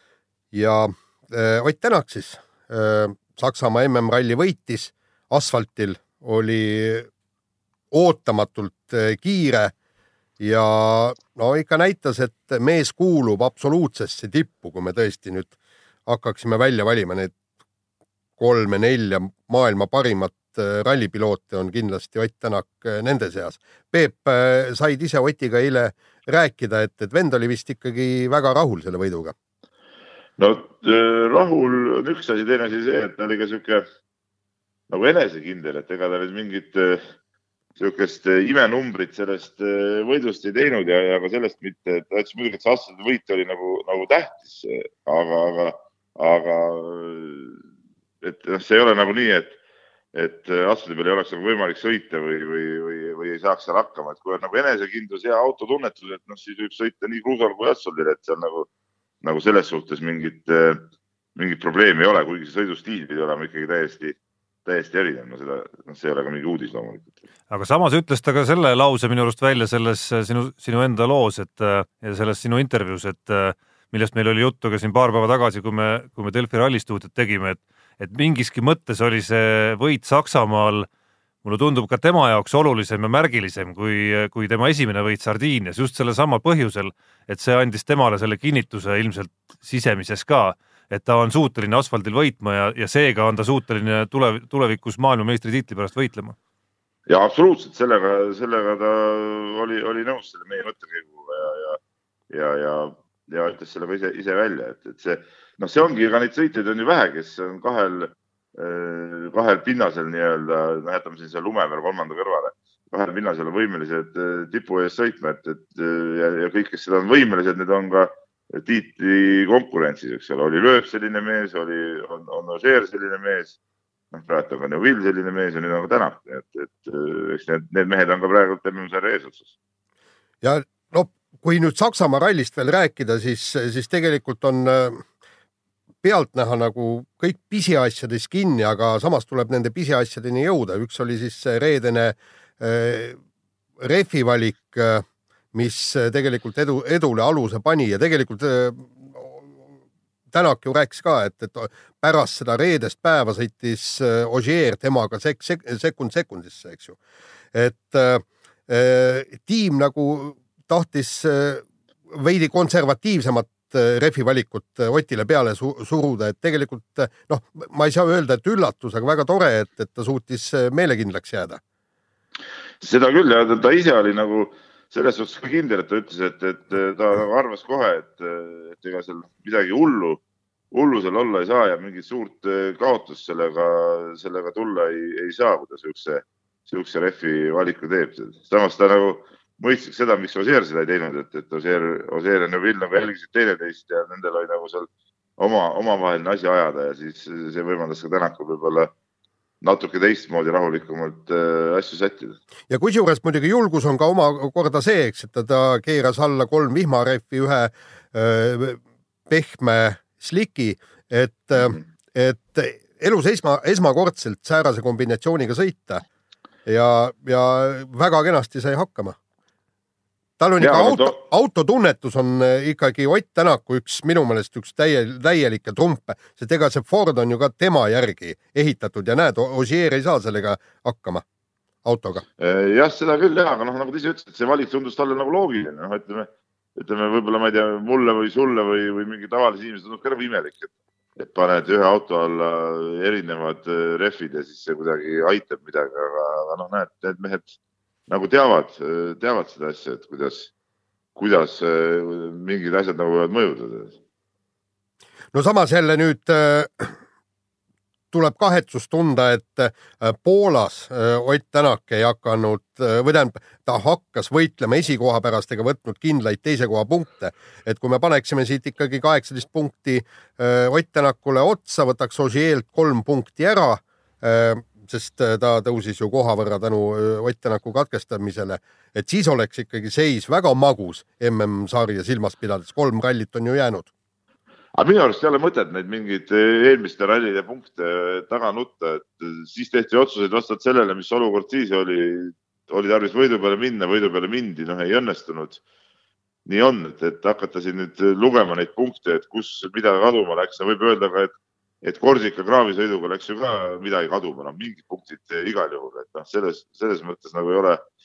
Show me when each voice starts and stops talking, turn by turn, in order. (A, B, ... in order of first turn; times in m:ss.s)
0:00.5-0:07.1 A
0:07.9-0:09.7 A
0:10.4-0:15.5 A
0:16.0-0:17.3 A
0:18.4-0:29.3 A
0:30.4-0:33.8 B
0:34.9-0:37.0 B
0:37.8-0:47.6 B
0:48.2-0:49.6 B
0:50.1-0:58.7 B
0:59.2-1:00.8 B
1:01.4-1:07.1 B
1:07.5-1:20.9 C
1:21.4-1:36.4 C
1:37.1-2:03.6 B
2:04.1-2:09.5 B
2:10.4-2:15.0 A
2:16.0-2:23.2 A
2:23.8-2:29.5 A
2:30.3-2:37.0 A
2:37.5-2:51.6 A
2:52.8-3:00.2 B
3:00.7-3:18.9 B
3:19.6-3:22.4 B
3:22.7-3:36.0 A
3:36.6-3:39.2 A
3:40.4-3:51.2 A
3:40.6-3:41.2 B
3:51.8-3:52.2 A
3:52.4-4:07.6 B
4:08.1-4:10.5 B
4:11.2-4:14.0 B
4:15.3-4:17.0 A
4:18.1-4:43.9 A
4:44.8-4:55.6 B
4:56.5-5:07.8 B